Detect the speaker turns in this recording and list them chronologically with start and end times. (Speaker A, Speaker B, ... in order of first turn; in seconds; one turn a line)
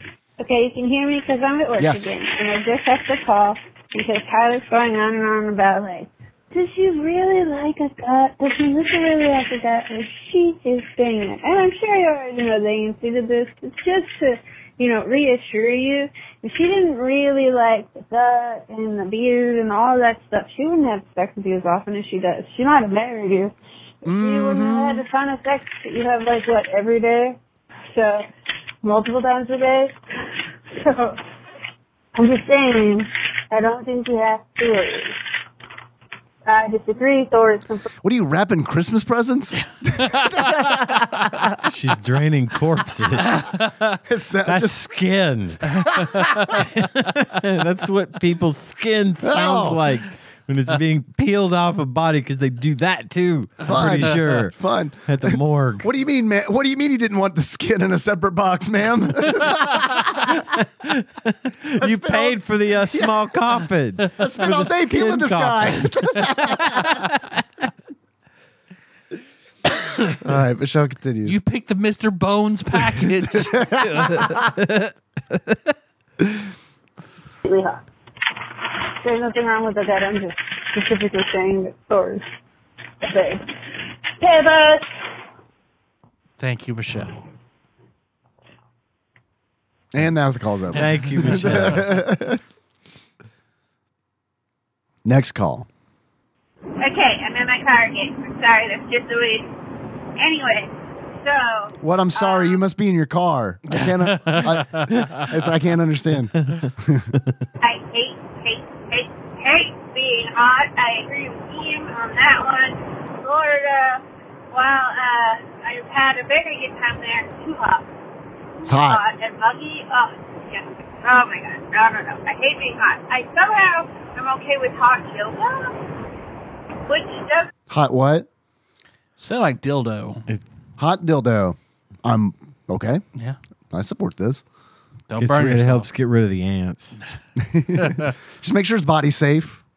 Speaker A: 0.4-23.5
Speaker B: 1.8-2.2
Speaker B: 24.1-25.1
Speaker A: 24.1-27.4
Speaker A: 27.9-28.3
Speaker A: 28.8-30.0
Speaker A: 30.7-31.2
Speaker A: 32.2-35.2
Speaker A: 36.5-37.9
Speaker B: 38.0-41.6
Speaker C: 39.9-40.4
Speaker D: 41.6-43.5
Speaker C: 43.4-44.0
Speaker B: 44.1-44.8
Speaker D: 44.5-45.9
Speaker D: 46.5-55.9
Speaker B: 49.2-49.8
Speaker B: 53.6-60.4
Speaker D: 60.4-67.1
Speaker B: 61.8-63.2
Speaker B: 64.2-67.0
Speaker B: 70.2-71.4
Speaker C: 71.2-73.6
Speaker B: 73.0-74.4
Speaker D: 74.0-74.9
Speaker A: 77.4-77.8
Speaker A: 79.0-82.2
Speaker A: 83.0-83.5
Speaker A: 84.2-84.8
Speaker C: 86.4-87.2
Speaker B: 89.9-92.4
Speaker D: 90.7-92.0
Speaker C: 91.2-91.7
Speaker B: 95.0-95.7
Speaker E: 96.8-99.5
Speaker E: 100.2-102.6
Speaker B: 101.8-107.2
Speaker C: 103.7-105.4
Speaker E: 107.6-117.9
Speaker E: 118.6-125.8
Speaker B: 118.7-119.0
Speaker E: 126.9-127.5
Speaker B: 127.7-128.3
Speaker C: 129.2-130.2
Speaker B: 130.8-133.0
Speaker B: 133.7-134.4
Speaker C: 135.1-135.9
Speaker D: 135.2-137.0
Speaker B: 137.4-139.6
Speaker C: 137.8-138.1